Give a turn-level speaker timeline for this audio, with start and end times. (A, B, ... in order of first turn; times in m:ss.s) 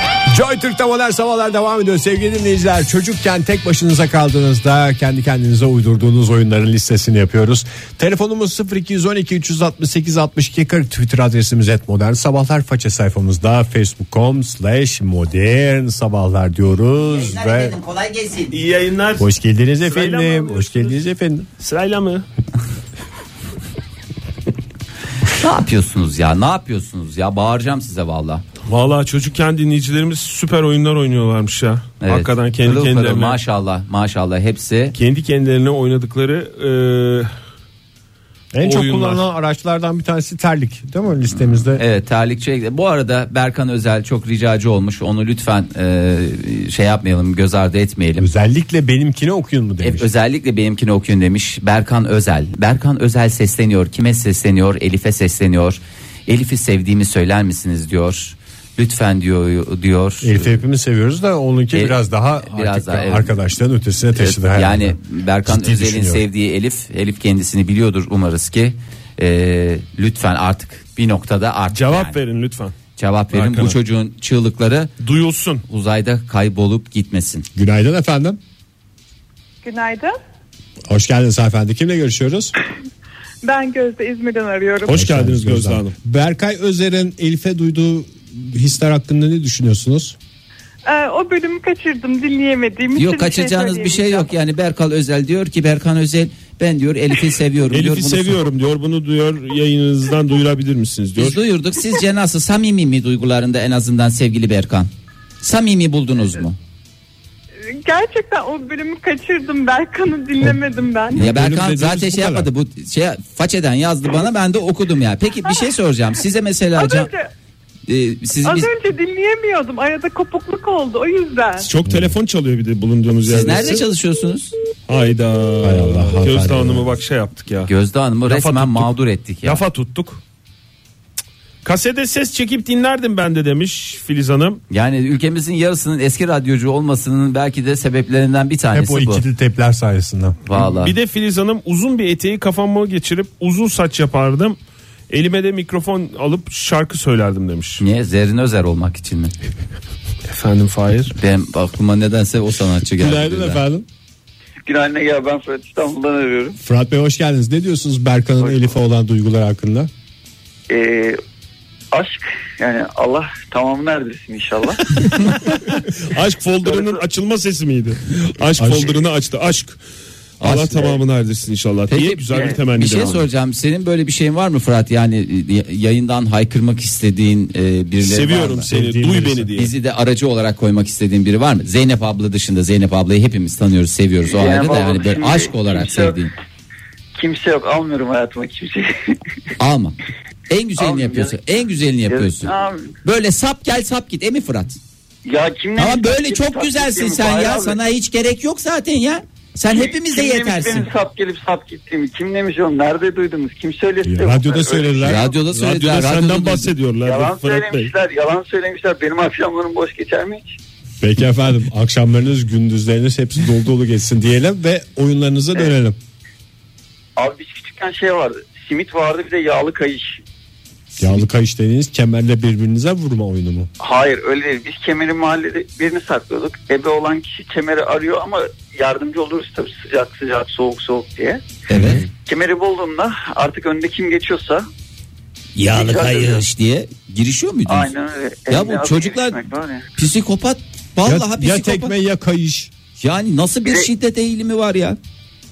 0:00.2-0:17.8 A
0:17.0-0:18.6 B
0:18.5-0:19.3 C
0:19.2-0:21.5 A
0:19.8-0:21.0 C
0:21.6-0:22.2 C
0:25.3-0:28.4 B
0:28.6-0:33.4 C
0:32.0-0:34.9 B
0:34.9-0:37.3 C
0:38.5-0:41.8 A
0:38.6-0:39.2 C
0:41.3-0:48.3 B
0:48.2-0:50.1 A
0:49.8-1:00.6 B
1:00.2-1:06.2 A
1:01.7-1:03.3 B
1:04.1-1:12.2 B
1:11.7-1:12.7 C
1:13.0-1:14.9 B
1:13.3-1:13.8 C
1:15.0-1:15.6 C
1:15.7-1:17.4 B
1:17.5-1:18.4 A
1:19.6-1:20.1 D
1:20.9-1:22.5 A
1:23.4-1:24.9 D
1:24.8-1:25.9 C
1:24.9-1:30.2 A
1:30.8-1:34.3 D
1:32.9-1:38.4 B
1:37.7-1:41.4 C
1:41.2-1:44.9 B
1:45.4-1:46.6 B
1:47.6-1:51.2 D
1:51.1-1:52.5 A
1:51.2-1:57.1 B
1:56.8-1:57.3 D
1:57.9-1:58.7 B
1:58.4-2:01.7 D
2:01.6-2:03.8 C
2:01.8-2:02.2 A
2:03.2-2:04.5 B
2:04.9-2:07.7 C
2:05.6-2:07.0 A
2:07.6-2:09.6 B
2:08.2-2:10.2 C
2:11.6-2:14.6 C
2:14.7-2:19.2 B
2:18.7-2:20.4 A
2:20.5-2:20.9 B
2:20.6-2:24.6 C
2:25.1-2:27.8 C
2:27.8-2:29.3 B
2:30.3-2:31.1 C
2:31.1-2:33.6 B
2:33.0-2:33.8 A
2:34.6-2:36.6 E
2:36.6-2:39.9 A
2:38.4-2:38.7 E
2:40.7-2:41.2 E
2:41.9-2:44.8 E
2:45.0-2:49.8 C
2:46.6-2:47.0 E
2:48.6-2:49.0 A
2:50.4-2:53.2 C
2:50.4-2:51.0 B
2:51.9-2:58.7 B
2:58.0-2:59.7 C
2:58.6-2:59.5 A
2:59.6-3:06.3 B
3:04.2-3:06.3 E
3:07.2-3:09.2 E
3:09.6-3:10.0 B
3:10.5-3:14.8 B
3:10.8-3:11.5 E
3:12.1-3:12.9 E
3:15.2-3:17.8 E
3:15.8-3:20.9 B
3:19.7-3:25.3 E
3:24.0-3:25.3 A
3:25.0-3:26.7 B
3:25.5-3:27.9 C
3:27.0-3:30.6 E
3:31.0-3:36.0 A
3:37.2-3:40.2 E
3:41.0-3:43.7 A
3:43.8-3:51.4 E
3:51.7-3:52.0 B
3:52.2-3:54.6 E
3:55.6-3:57.9 B
3:55.6-3:56.4 E
3:57.7-3:59.9 E
3:58.5-3:59.4 B
4:00.0-4:01.9 B
4:01.0-4:02.7 A
4:03.0-4:05.0 B
4:03.6-4:03.9 E